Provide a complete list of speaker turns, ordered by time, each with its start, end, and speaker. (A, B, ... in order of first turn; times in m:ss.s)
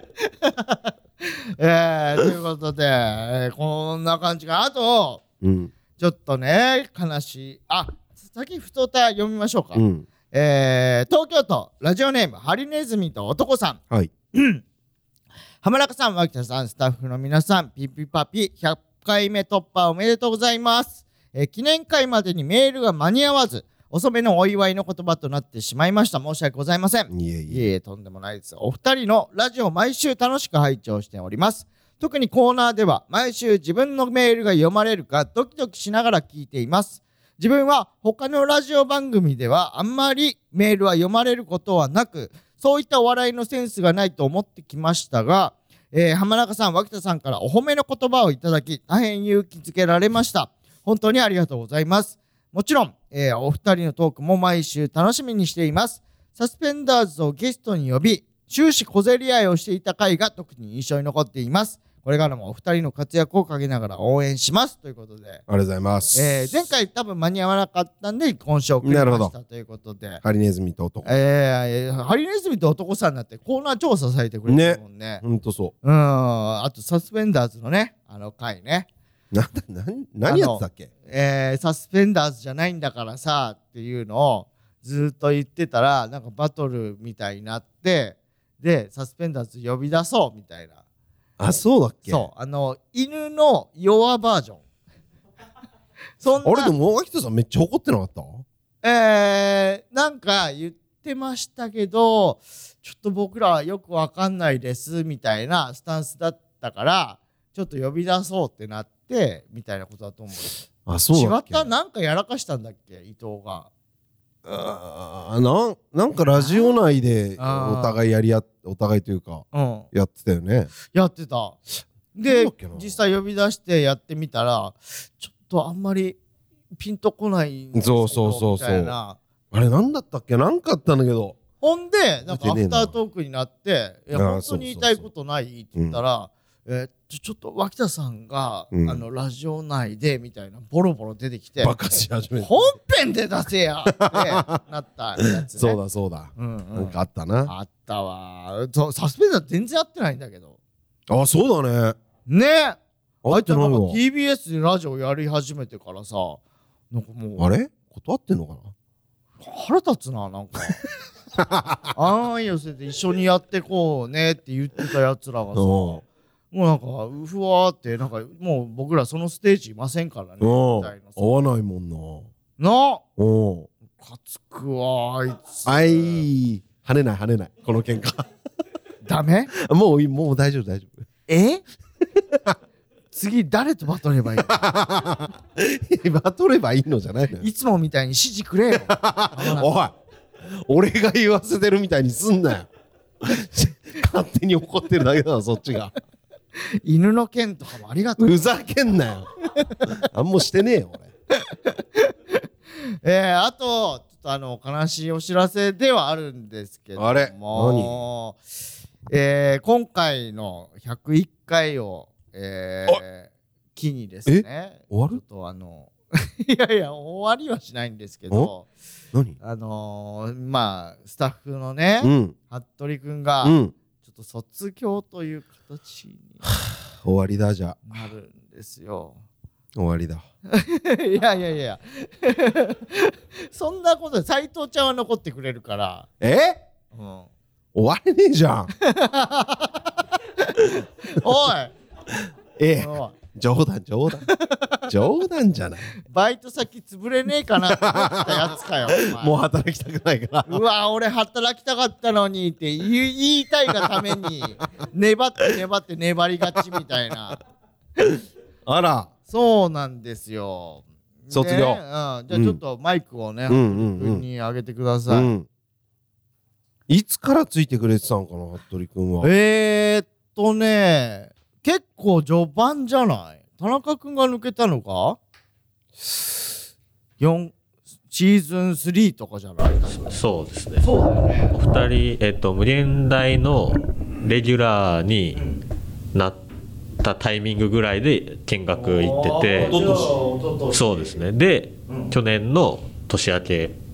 0:00.2-0:05.2 A
0:05.4-0:05.7 B
0:06.0-0:13.8 A
0:09.8-0:10.1 B
0:14.3-0:14.6 A
0:15.6-1:05.4 A
0:27.1-0:27.7 B
1:05.5-1:06.6 B
1:06.1-1:10.2 A
1:08.8-1:09.3 B
1:10.2-1:11.1 B
1:11.0-1:15.2 A
1:14.5-1:15.7 B
1:15.8-1:18.9 A
1:19.3-1:20.9 B
1:20.3-1:30.8 A
1:31.4-1:32.3 B
1:32.1-1:34.6 A
1:36.2-1:36.7 A
1:36.4-1:38.4 B
1:38.8-1:53.7 A
1:50.9-1:51.7 B
1:54.4-2:00.7 B
1:56.3-1:56.8 A
1:57.4-1:58.0 A
1:59.5-1:59.9 A
2:00.9-2:01.6 A
2:02.1-2:06.2 A
2:02.3-2:03.0 B
2:06.8-2:09.2 A
2:07.7-2:09.0 B
2:09.5-2:11.4 B
2:11.6-2:21.8 A
2:12.3-2:13.0 B
2:14.1-2:15.1 B
2:18.7-2:19.0 B
2:21.6-2:22.7 B
2:22.4-2:25.8 A
2:23.9-2:24.6 B
2:25.2-2:27.5 B
2:26.4-2:30.6 A
2:31.1-2:32.0 B
2:32.3-2:36.4 A
2:33.2-2:34.0 B
2:36.9-2:37.5 A
2:37.4-2:38.7 B
2:39.4-2:40.8 A
2:41.4-2:41.9 B
2:41.9-2:51.4 A
2:45.6-2:46.0 B
2:50.4-2:52.3 B
2:52.6-2:53.0 A
2:53.2-2:53.7 B
2:53.9-2:56.3 A
2:55.7-2:58.3 B
2:59.0-2:59.5 A
2:59.5-3:01.1 B
3:01.3-3:01.6 A
3:03.1-3:04.7 A
3:04.4-3:07.5 B
3:07.4-3:09.7 A
3:08.8-3:12.7 B
3:13.2-3:15.9 B
3:16.6-3:18.5 A
3:18.2-3:19.3 B
3:19.6-3:19.8 A
3:19.9-3:21.1 B
3:21.4-3:28.4 A
3:27.0-3:28.0 B
3:29.1-3:38.7 A
3:34.3-3:35.2 B
3:39.4-3:46.5 A
3:42.0-3:42.4 B
3:43.4-3:43.8 B
3:46.6-3:48.0 B
3:47.9-3:49.2 A
3:49.8-3:50.2 B
3:50.5-3:56.1 A
3:56.2-3:56.6 B
3:56.9-3:57.3 A
3:57.7-3:58.7 B
3:58.8-4:01.7 A
4:02.1-4:04.3 B
4:02.8-4:03.1 A
4:04.3-4:04.9 A
4:04.9-4:05.9 B
4:06.0-4:09.4 A
4:07.5-4:10.6 B
4:10.5-4:17.4 A
4:13.8-4:14.4 B
4:18.7-4:19.1 B
4:19.3-4:25.3 A
4:21.3-4:22.6 B
4:23.5-4:24.3 B
4:25.1-4:25.5 B
4:26.9-4:29.3 B
4:29.2-4:35.2 A
4:37.2-4:37.6 A
4:38.1-4:40.2 A
4:40.0-4:40.9 C
4:40.8-4:41.6 A
4:41.5-4:45.4 C
4:45.4-4:45.6 A
4:46.1-4:46.4 C
4:47.0-4:50.1 C
4:48.7-4:51.2 A
4:49.6-4:50.1 B
4:50.7-4:53.8 C
4:51.9-4:52.1 A